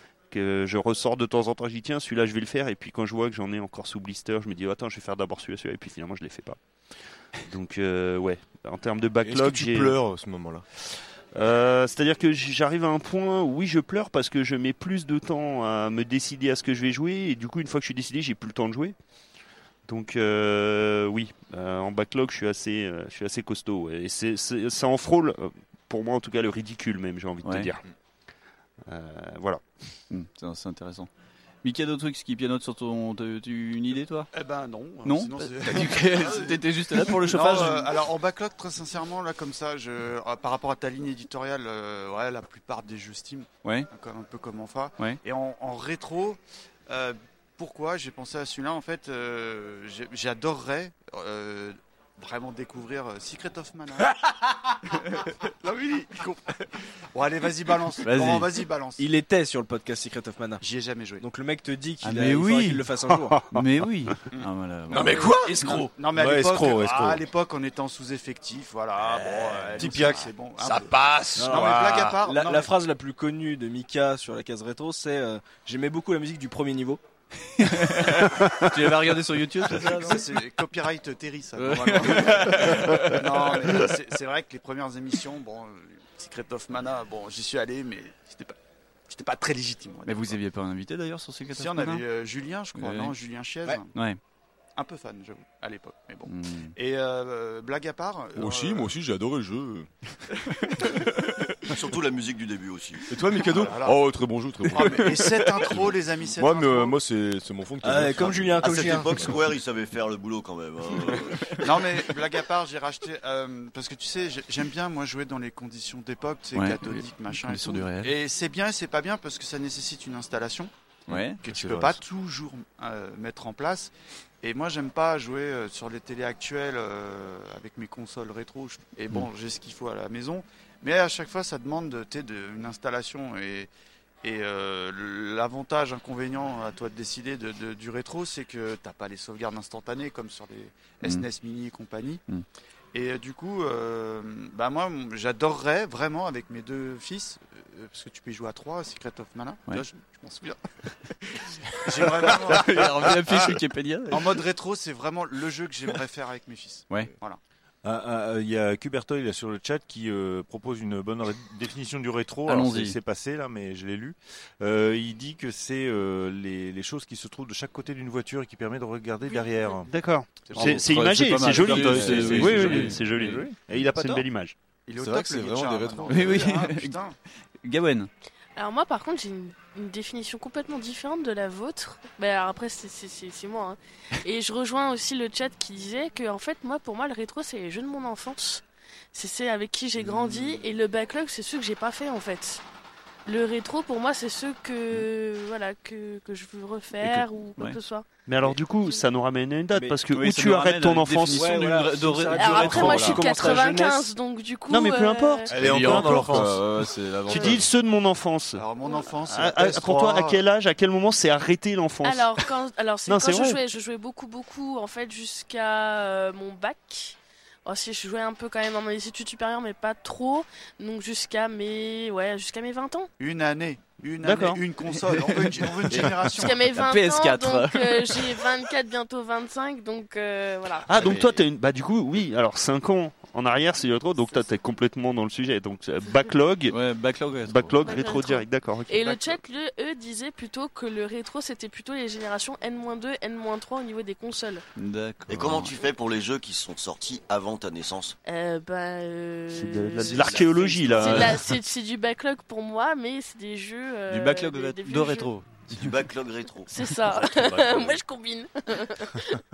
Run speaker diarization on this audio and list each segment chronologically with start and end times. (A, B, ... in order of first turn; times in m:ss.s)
0:00.3-0:06.6 A
0:07.5-0:10.0 A
0:09.2-0:10.6 B
0:11.3-0:19.0 A
0:19.9-0:27.8 A
0:27.4-0:27.7 C
0:28.9-0:29.6 A
0:30.1-0:31.1 C
0:31.6-0:34.3 C
0:34.3-0:54.2 D
0:35.0-0:38.1 C
0:43.6-0:43.9 C
0:54.9-0:59.0 D
0:58.0-0:58.6 C
0:59.0-1:00.6 E
1:00.6-1:01.2 D
1:01.2-1:03.4 E
1:02.0-1:02.8 C
1:03.5-1:05.9 C
1:04.3-1:12.7 D
1:04.9-1:05.9 B
1:06.1-1:07.2 F
1:09.8-1:11.6 B
1:09.8-1:10.2 F
1:11.4-1:17.0 E
1:17.6-1:20.4 C
1:19.8-1:20.2 E
1:20.0-1:28.6 D
1:21.6-1:23.8 C
1:29.1-1:30.4 D
1:30.1-1:32.0 C
1:31.5-1:33.9 D
1:32.8-1:33.2 C
1:33.9-1:34.2 C
1:34.8-1:38.9 D
1:36.3-1:36.7 C
1:38.4-1:39.9 B
1:41.6-1:43.1 G
1:43.1-1:49.5 B
1:43.5-1:44.0 D
1:44.6-1:47.0 D
1:47.8-1:49.4 E
1:48.6-1:51.8 G
1:51.6-2:00.7 D
1:56.6-1:58.2 C
2:01.1-2:01.9 C
2:01.4-2:03.9 D
2:04.4-2:13.7 D
2:14.2-2:22.2 D
2:22.9-2:33.2 D
2:32.2-2:34.4 C
2:34.1-2:37.4 D
2:37.8-2:49.9 F
2:42.5-2:43.0 C
2:49.3-2:49.8 H
2:49.9-2:54.6 A
2:50.5-2:53.0 B
2:50.5-2:53.4 C
2:51.5-2:54.2 F
2:54.9-2:57.2 D
2:55.0-2:56.6 B
2:56.1-2:57.0 C
2:57.6-2:58.1 C
2:58.6-3:12.6 H
3:13.3-3:18.1 H
3:17.0-3:17.8 C
3:18.3-3:21.6 A
3:19.7-3:20.0 E
3:20.1-3:23.6 C
3:21.3-3:24.1 E
3:22.4-3:25.5 H
3:24.7-3:26.6 A
3:25.5-3:27.7 B
3:25.5-3:26.7 F
3:27.2-3:28.6 A
3:28.6-3:30.4 D
3:29.3-3:32.5 A
3:32.0-3:43.1 H
3:33.1-3:33.6 A
3:43.2-3:46.7 D
3:44.2-3:44.6 A
3:46.3-3:51.0 H
3:46.8-3:48.2 C
3:46.8-3:47.9 E
3:50.9-3:56.8 A
3:51.0-3:51.3 G
3:56.7-3:57.8 C
3:57.5-3:59.4 A
3:57.8-4:04.6 H
4:04.8-4:05.8 C
4:05.3-4:08.2 G
4:08.3-4:15.3 H
4:09.5-4:11.5 A
4:10.1-4:11.1 G
4:10.8-4:11.4 C
4:14.1-4:15.9 C
4:15.7-4:16.8 G
4:16.7-4:19.4 H